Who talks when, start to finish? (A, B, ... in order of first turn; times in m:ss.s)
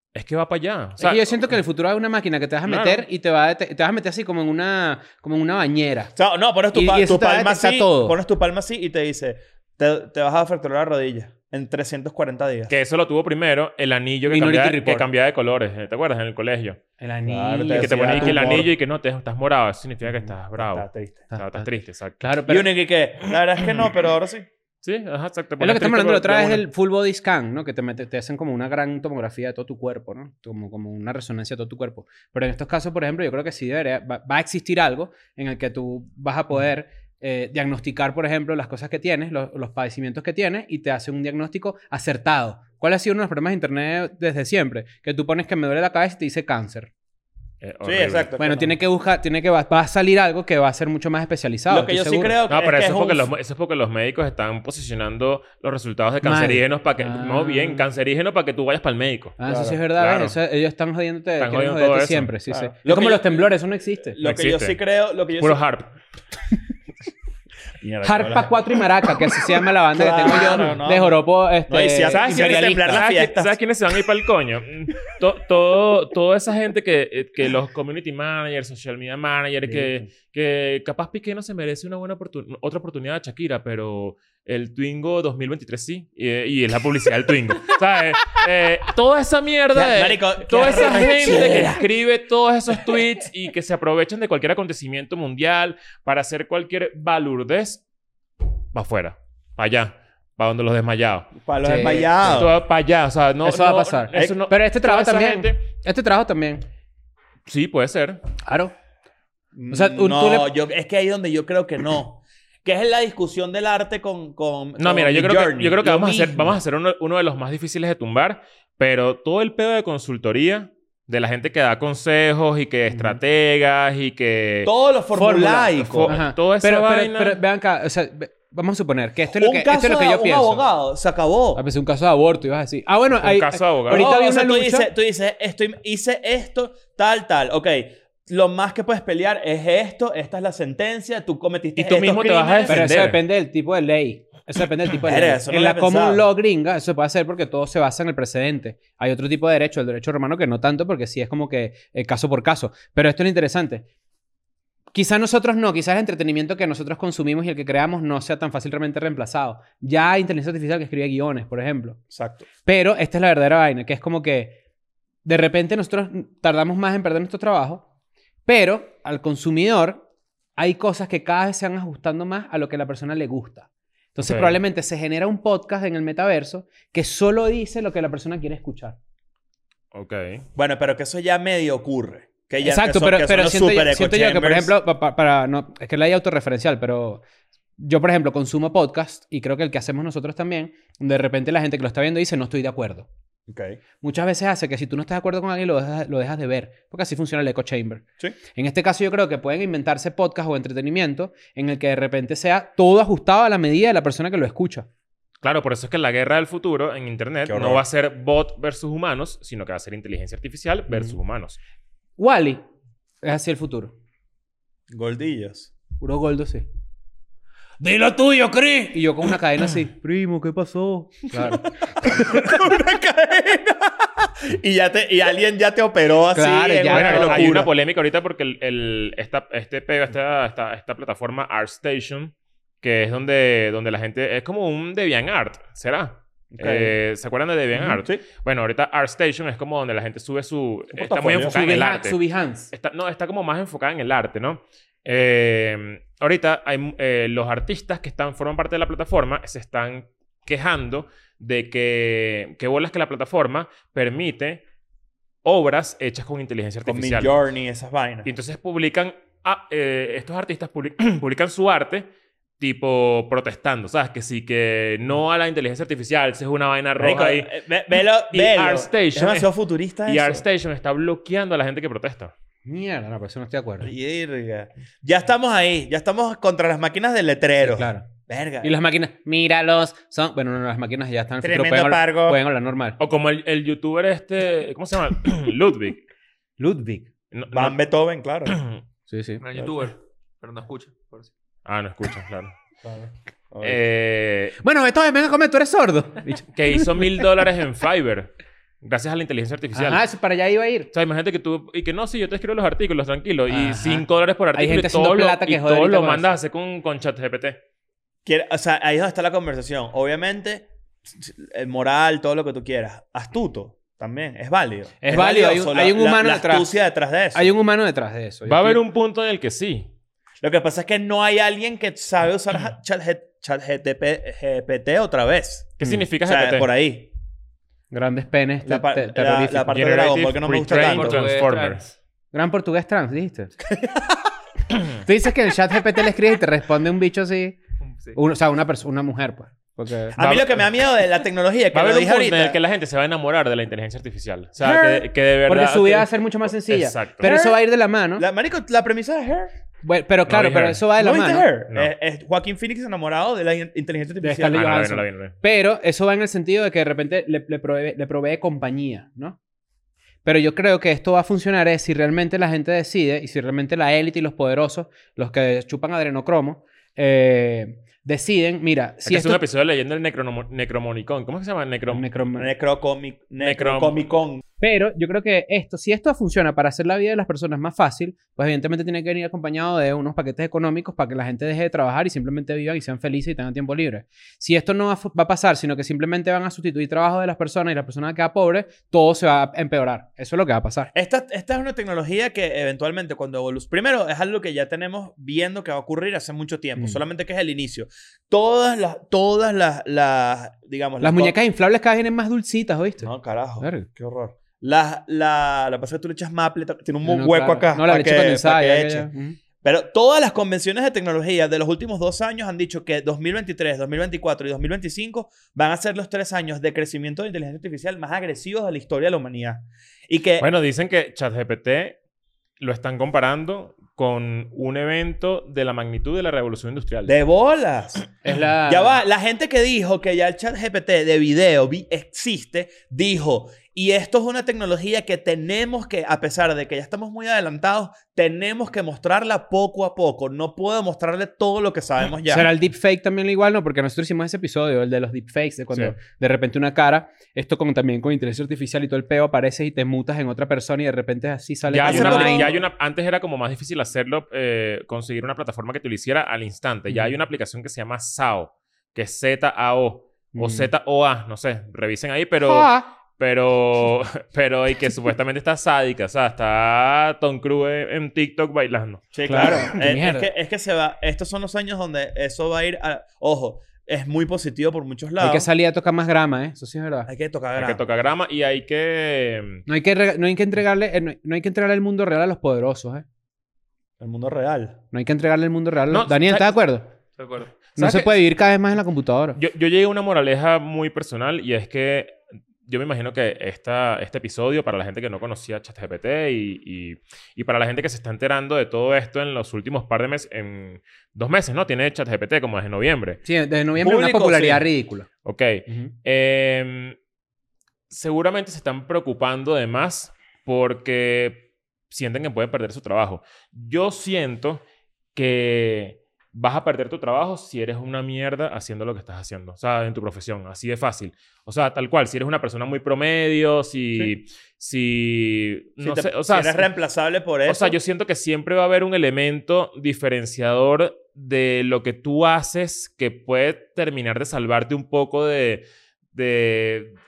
0:00.1-0:01.5 A
0:01.0-0:06.1 B
0:02.6-0:03.0 A
0:06.1-0:12.7 C
0:06.7-0:08.2 B
0:12.7-0:16.8 A
0:14.3-0:15.1 B
0:17.0-0:18.6 B
0:17.2-0:18.7 C
0:17.7-0:22.3 A
0:20.5-0:21.2 C
0:21.3-0:21.6 B
0:22.2-0:22.7 B
0:22.5-0:24.4 C
0:24.8-0:26.6 A
0:25.6-0:46.9 B
0:47.6-0:48.3 A
0:47.8-0:48.7 C
0:48.4-0:52.4 B
0:51.7-0:53.3 C
0:52.5-0:59.4 A
0:56.2-0:57.8 B
0:59.4-1:04.2 B
0:59.4-0:59.8 C
0:59.9-1:00.4 A
1:01.4-1:02.3 A
1:02.5-1:03.4 C
1:04.1-1:05.6 C
1:04.2-1:04.8 A
1:05.4-1:05.9 A
1:07.8-1:08.6 C
1:08.0-1:13.0 B
1:09.9-1:13.6 C
1:12.1-1:37.8 A
1:19.6-1:20.1 C
1:29.7-1:31.8 C
1:38.7-1:41.3 A
1:41.4-1:42.5 C
1:41.6-1:42.2 B
1:42.2-1:45.6 A
1:43.4-1:46.6 B
1:47.4-1:48.2 A
1:48.4-1:48.7 B
1:49.5-1:56.5 C
1:49.7-1:50.5 B
1:54.8-2:04.7 A
2:02.9-2:03.2 B
2:04.6-2:06.1 C
2:05.1-2:10.6 B
2:05.8-2:07.4 A
2:09.3-2:11.6 C
2:11.6-2:14.9 B
2:13.2-2:14.1 A
2:13.9-2:22.9 C
2:21.8-2:23.2 A
2:22.7-2:33.8 B
2:25.0-2:26.2 C
2:34.9-2:42.0 B
2:42.1-2:42.4 C
2:42.6-2:44.6 B
2:45.2-2:47.8 B
2:48.4-2:50.0 B
2:50.6-2:59.0 B
2:54.2-2:54.6 A
2:59.9-3:00.4 A
3:00.6-3:04.7 C
3:02.6-3:07.2 B
3:07.8-3:13.1 B
3:13.5-3:13.8 C
3:14.0-3:24.9 B
3:25.4-3:31.6 A
3:27.4-3:27.8 C
3:32.2-3:32.6 B
3:33.2-3:33.9 B
3:34.9-3:35.7 C
3:36.0-3:36.6 B
3:37.8-3:41.7 B
3:41.4-3:47.7 C
3:46.3-3:47.6 B
3:46.9-4:02.2 A
3:56.5-3:56.9 C
3:57.8-3:58.2 C
4:01.0-4:01.7 C
4:01.4-4:02.7 B
4:02.7-4:14.6 A
4:15.4-4:17.3 A
4:16.8-4:18.3 C
4:18.2-4:22.1 A
4:22.6-4:29.5 A
4:27.0-4:30.4 C
4:30.0-4:32.3 A
4:32.6-4:33.9 B
4:33.8-4:38.7 C
4:37.6-4:38.1 B
4:38.6-4:43.0 B
4:41.4-4:42.4 C
4:43.0-4:46.0 A
4:46.6-4:47.1 B
4:47.3-4:47.8 A
4:47.5-4:48.6 C
4:48.5-4:48.8 A
4:49.1-4:49.4 B
4:49.4-4:51.3 D
4:51.6-4:52.5 A
4:52.8-4:53.8 C
4:53.6-4:54.6 A
4:54.6-4:57.2 B
4:56.5-4:58.3 A
4:58.8-5:00.0 A
4:59.7-5:00.9 B
5:00.9-5:07.6 A
5:03.5-5:06.4 B
5:08.2-5:17.5 C
5:15.0-5:16.7 B
5:17.3-5:18.8 B
5:18.4-5:19.9 A
5:20.4-5:27.1 C
5:25.8-5:26.7 A
5:27.9-5:29.8 B
5:28.6-5:31.2 C
5:29.7-5:31.8 A
5:30.7-5:31.9 D
5:32.3-5:33.6 B
5:33.8-5:34.1 C
5:34.9-5:37.6 B
5:37.8-5:38.2 D
5:38.1-5:40.2 B
5:40.1-5:42.6 C
5:40.2-5:40.7 A
5:41.7-5:47.3 A
5:44.6-5:45.0 C
5:45.5-5:48.2 B
5:47.2-5:47.6 C
5:48.2-5:49.5 C
5:49.8-5:51.5 B
5:50.3-5:50.8 A
5:51.0-5:54.7 C
5:54.2-5:59.4 B
5:54.5-5:55.3 A
6:00.2-6:09.4 B
6:09.0-6:12.0 A
6:11.9-6:12.5 B
6:12.4-6:14.4 C
6:13.4-6:13.9 A
6:14.6-6:30.9 B
6:30.9-6:41.4 C
6:41.0-6:43.9 B
6:43.0-6:49.1 C
6:47.0-6:49.4 B
6:49.6-7:00.5 C
7:00.4-7:02.0 A
7:02.6-7:07.1 A
7:07.1-7:22.5 C
7:08.2-7:09.0 B
7:22.2-7:32.5 B
7:31.7-7:49.6 A
7:31.8-7:32.6 C
7:40.3-7:40.7 B
7:42.4-7:42.9 B
7:49.1-7:55.5 C
7:49.3-7:50.3 B
7:55.2-7:57.1 B
7:57.1-7:57.8 C
7:57.6-7:59.6 A
7:59.7-8:03.0 B
8:04.0-8:04.8 C
8:04.9-8:06.9 B
8:05.9-8:06.5 A
8:07.2-8:07.5 D
8:07.8-8:09.4 B
8:07.8-8:08.2 A
8:09.4-8:23.2 A
8:23.2-8:25.1 B
8:23.8-8:24.6 C
8:25.2-8:27.0 A
8:27.9-8:34.6 A
8:35.1-8:46.7 A
8:45.8-8:47.8 C
8:47.5-8:56.9 A